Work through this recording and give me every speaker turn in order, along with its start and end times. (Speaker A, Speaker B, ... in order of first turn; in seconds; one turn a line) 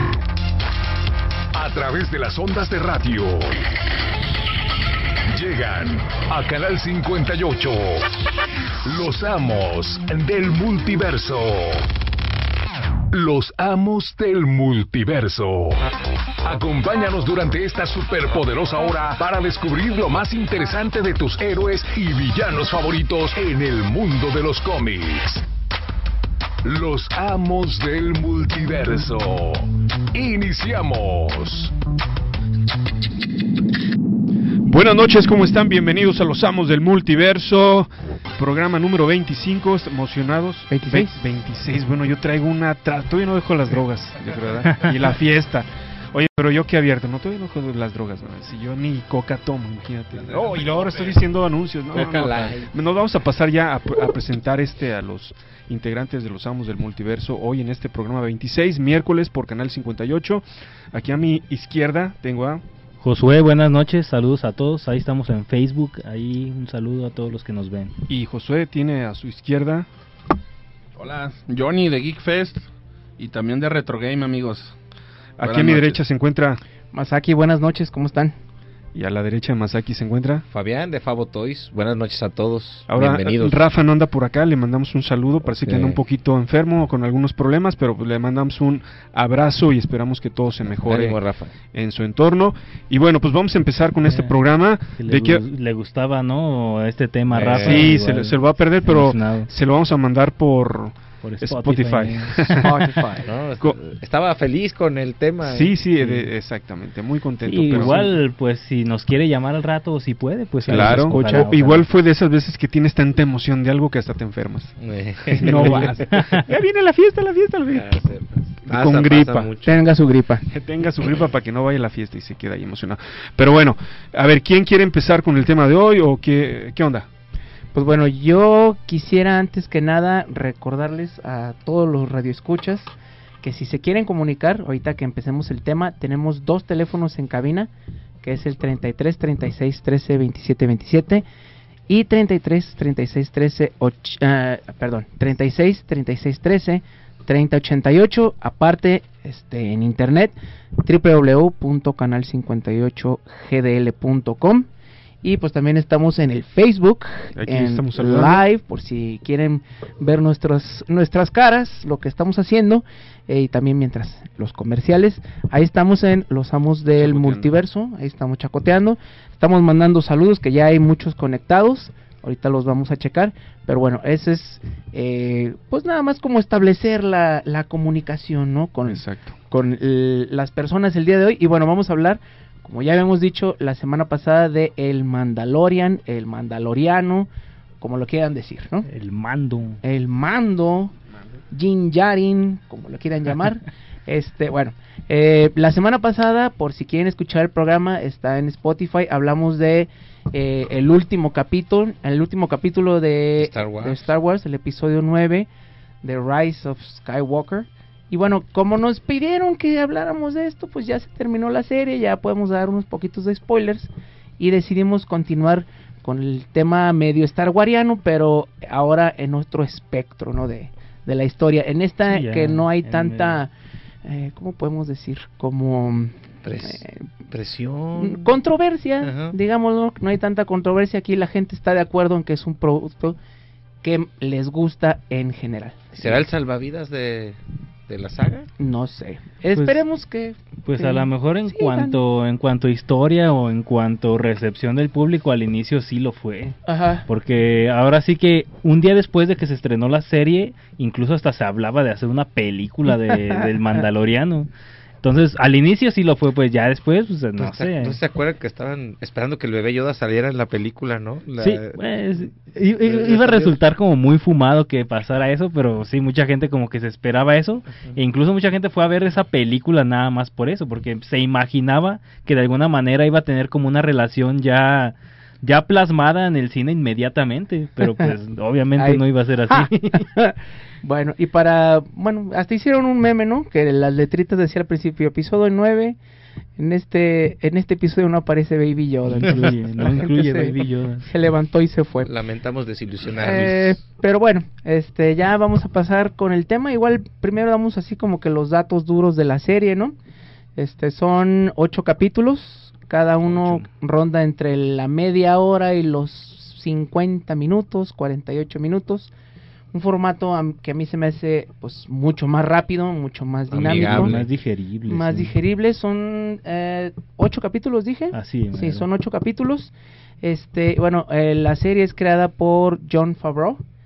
Speaker A: 1.5-3.6
Speaker A: 5.3-8.1
Speaker A: 8.9-11.9
Speaker A: 13.1-15.9
Speaker A: 16.4-25.4
Speaker A: 26.6-31.7
Speaker B: 34.6-62.6
Speaker C: 40.7-41.2
Speaker D: 51.9-52.7
Speaker E: 63.0-67.9
Speaker B: 68.1-69.9
Speaker F: 71.0-72.7
Speaker F: 73.2-74.8
Speaker B: 75.4-76.6
Speaker F: 75.4-76.0
Speaker C: 76.9-78.4
Speaker B: 78.9-80.5
Speaker D: 80.5-83.6
Speaker B: 82.9-91.2
Speaker D: 85.5-86.0
Speaker D: 90.7-91.5
Speaker B: 91.7-95.4
Speaker E: 95.0-99.5
Speaker D: 97.3-98.0
Speaker B: 97.6-102.9
Speaker E: 101.2-102.8
Speaker D: 103.2-106.2
Speaker B: 105.4-108.1
Speaker E: 107.5-111.9
Speaker B: 110.7-117.9
Speaker D: 114.8-116.1
Speaker E: 115.5-116.4
Speaker D: 117.7-119.9
Speaker B: 118.6-119.5
Speaker C: 119.6-120.5
Speaker B: 120.5-127.1
Speaker C: 127.7-137.7
Speaker C: 138.2-141.3
Speaker C: 141.9-154.7
Speaker C: 155.2-187.3
Speaker B: 157.4-158.4
Speaker B: 166.9-167.5
Speaker B: 178.9-179.4
Speaker C: 187.8-188.9
Speaker E: 188.9-189.8
Speaker C: 189.8-190.9
Speaker C: 191.5-205.5
Speaker D: 203.4-204.1
Speaker C: 206.0-223.5
Speaker E: 222.1-223.4
Speaker C: 224.1-227.0
Speaker D: 226.4-228.3
Speaker C: 228.0-233.2
Speaker D: 229.0-229.4
Speaker C: 233.8-236.2
Speaker D: 235.9-238.5
Speaker C: 238.6-242.0
Speaker E: 239.5-239.8
Speaker E: 240.7-254.5
Speaker C: 246.7-247.1
Speaker C: 252.9-253.4
Speaker E: 255.0-258.0
Speaker D: 257.4-261.8
Speaker E: 261.4-280.1
Speaker D: 262.8-263.6
Speaker D: 267.7-268.0
Speaker C: 277.8-278.1
Speaker C: 278.8-286.0
Speaker C: 286.6-290.5
Speaker E: 289.1-291.1
Speaker C: 291.1-292.1
Speaker D: 292.1-293.8
Speaker C: 293.2-300.0
Speaker C: 300.6-309.1
Speaker E: 303.2-303.7
Speaker C: 309.7-314.2
Speaker D: 313.5-314.2
Speaker E: 313.8-315.3
Speaker C: 314.9-323.6
Speaker E: 318.1-318.9